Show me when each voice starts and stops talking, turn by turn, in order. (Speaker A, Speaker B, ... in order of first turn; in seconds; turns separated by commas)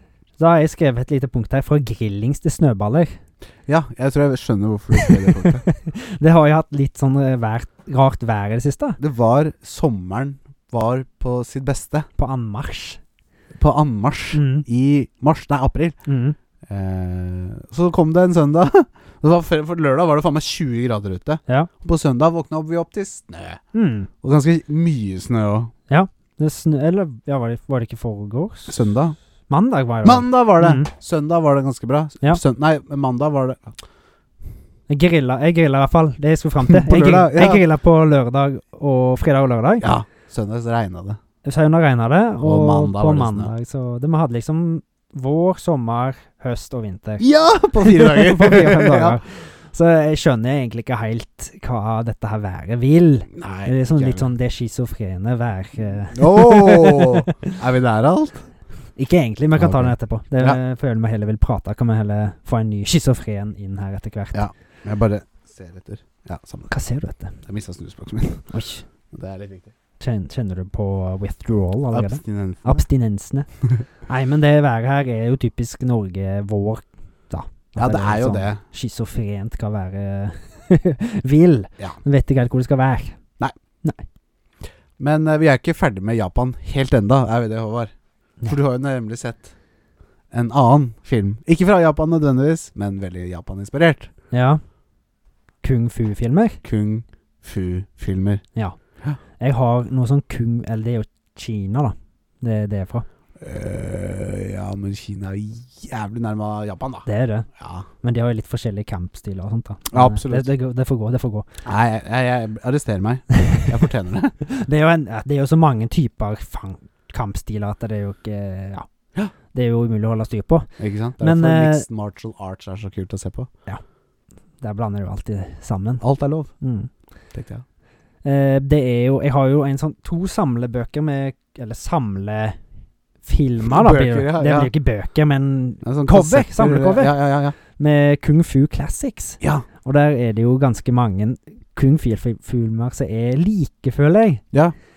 Speaker A: 0.4-3.2, Speaker B: 3.7-5.7, Speaker A: 5.0-9.0, Speaker B: 9.0-12.1, Speaker A: 12.2-13.0, Speaker B: 13.6-16.0, Speaker A: 14.3-14.7, Speaker A: 16.1-16.4, Speaker B: 16.7-23.6, Speaker A: 23.7-24.1, Speaker B: 24.2-25.7, Speaker A: 25.9-28.8, Speaker B: 28.7-29.2, Speaker A: 29.5-30.9, Speaker B: 30.0-33.8, Speaker A: 34.9-39.9, Speaker B: 36.7-37.6, Speaker B: 39.8-41.2, Speaker A: 41.4-47.2, Speaker B: 42.4-43.5, Speaker B: 47.2-49.2, Speaker A: 47.8-57.6, Speaker B: 53.3-54.3, Speaker B: 56.1-58.4, Speaker A: 59.0-64.4, Speaker B: 59.6-60.6, Speaker B: 64.3-66.7, Speaker A: 66.7-67.4, Speaker B: 67.5-68.6, Speaker A: 68.5-68.8, Speaker B: 69.1-69.7, Speaker A: 70.0-73.5, Speaker B: 71.9-72.8, Speaker A: 74.1-83.2, Speaker B: 77.8-78.6, Speaker B: 85.0-87.9, Speaker B: 88.5-89.5, Speaker B: 90.3-94.1, Speaker A: 94.3-94.6, Speaker A: 95.6-96.6, Speaker B: 96.6-98.4, Speaker A: 99.4-103.0, Speaker B: 103.4-107.9, Speaker A: 107.1-107.5, Speaker A: 108.0-111.5, Speaker B: 109.9-110.5, Speaker B: 111.6-114.3, Speaker A: 114.5-118.9, Speaker A: 119.5-121.9, Speaker B: 120.8-123.5, Speaker A: 124.6-126.0, Speaker B: 126.0-126.5, Speaker A: 126.6-126.9, Speaker B: 127.3-127.6, Speaker A: 128.2-132.6, Speaker A: 133.2-144.4, Speaker B: 133.6-134.7, Speaker B: 135.8-137.6